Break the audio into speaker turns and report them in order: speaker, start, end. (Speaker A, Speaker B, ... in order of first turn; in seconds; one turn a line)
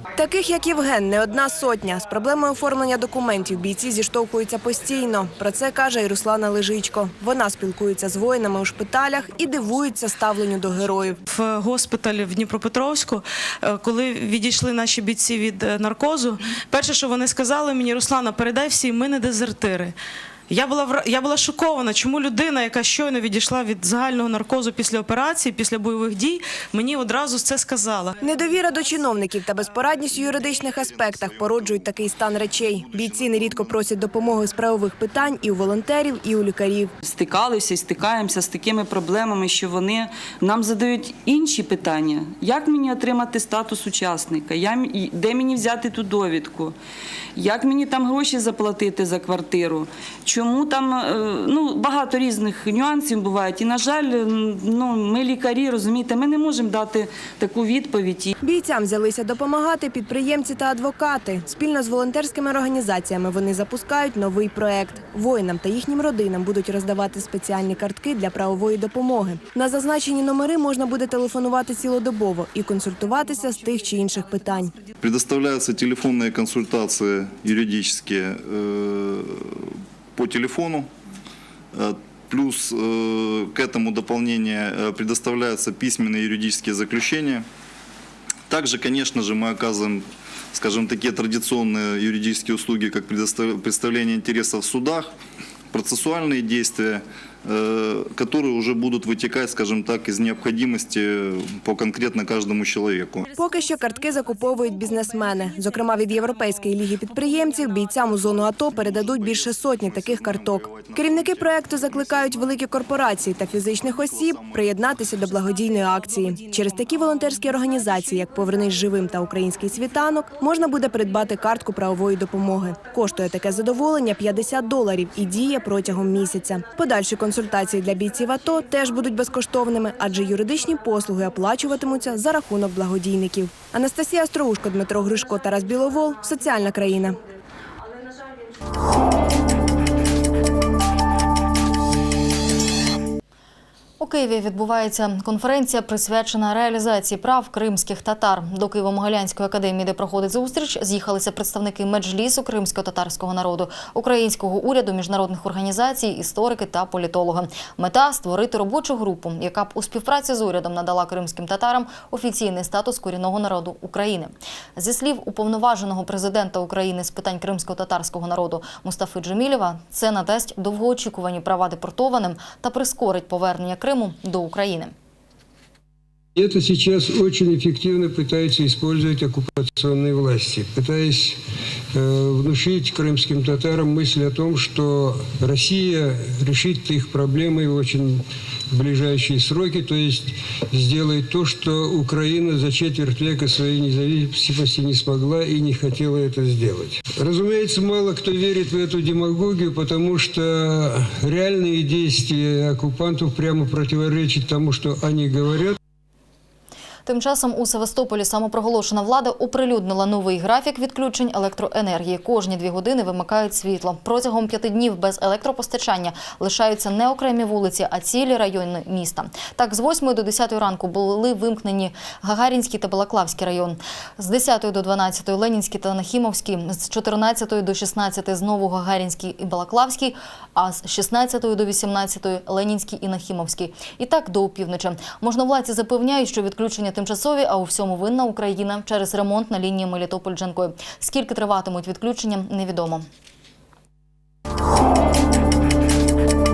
Speaker A: 0.2-11.2
Speaker B: 11.2-19.9
Speaker B: 20.5-28.2
Speaker A: 28.2-36.9
Speaker C: 30.2-33.9
Speaker D: 37.0-46.8
Speaker D: 47.3-58.3
Speaker A: 58.4-74.7
Speaker C: 75.0-79.3
Speaker C: 80.2-80.9
Speaker C: 81.7-87.4
Speaker C: 88.5-95.1
Speaker C: 95.7-103.3
Speaker A: 103.3-137.1
Speaker C: 108.8-112.6
Speaker C: 113.5-115.1
Speaker E: 144.0-174.9
Speaker F: 176.3-181.3
Speaker F: 181.9-188.2
Speaker F: 188.7-205.7
Speaker E: 207.1-243.0